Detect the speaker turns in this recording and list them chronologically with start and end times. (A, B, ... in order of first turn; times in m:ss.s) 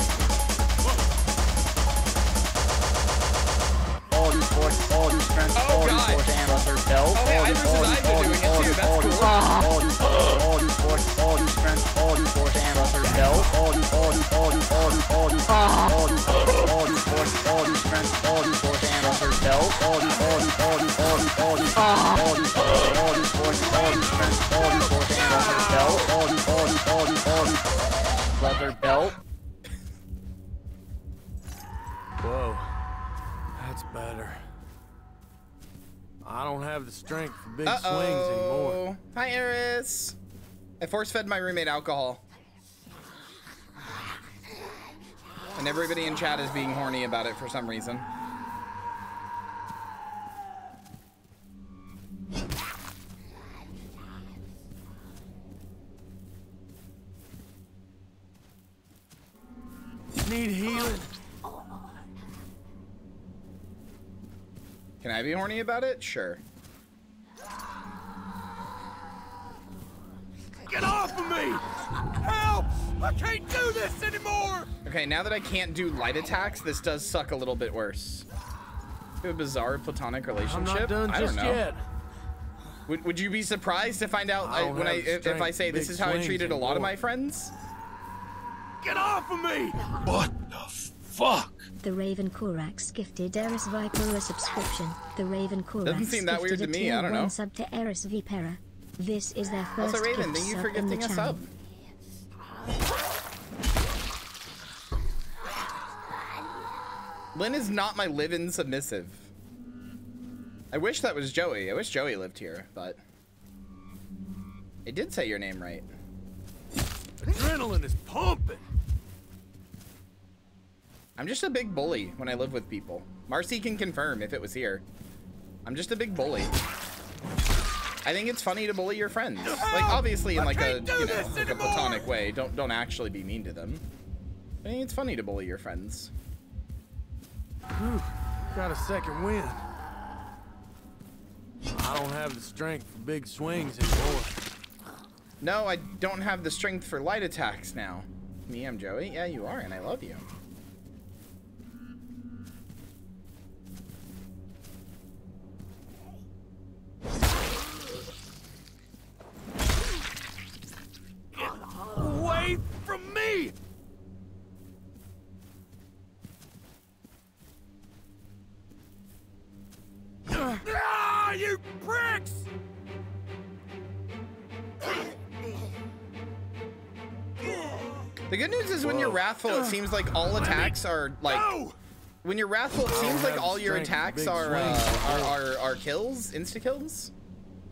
0:04.2-0:13.8 A
0:05.5-0:06.4 B
0:07.1-0:09.5 B
0:15.7-0:26.5 A
0:23.8-0:24.1 C
0:27.0-0:27.3 A
0:28.4-0:29.2 A
0:32.2-0:32.7 C
0:33.6-0:34.4 C
0:36.2-0:38.8 C
0:37.6-0:40.1 B
0:40.8-0:42.2 B
0:45.5-0:48.0 B
1:00.2-1:01.0 C
1:05.0-1:06.4 B
1:10.7-1:11.6 D
1:12.2-1:14.7 D
1:14.8-1:18.2 B
1:19.2-1:21.6 B
1:20.4-1:21.8 C
1:22.9-1:27.5 B
1:24.4-1:26.9 C
1:28.8-1:30.3 D
1:31.1-1:31.5 D
1:31.8-1:41.4 E
1:35.8-1:37.3 B
1:39.8-1:41.5 B
1:47.3-1:49.3 B
1:50.7-1:53.0 B
1:54.8-1:55.9 B
1:57.4-1:58.6 C
2:01.2-2:04.8 B
2:05.6-2:06.6 B
2:08.0-2:13.8 B
2:09.6-2:12.0 D
2:14.6-2:16.1 B
2:17.8-2:19.6 C
2:21.7-2:24.4 C
2:25.4-2:30.2 B
2:41.3-2:43.5 D
2:50.4-2:52.5 D
2:58.3-3:01.5 B
2:58.8-2:59.2 C
3:00.3-3:01.7 D
3:02.2-3:07.1 B
3:02.9-3:05.4 C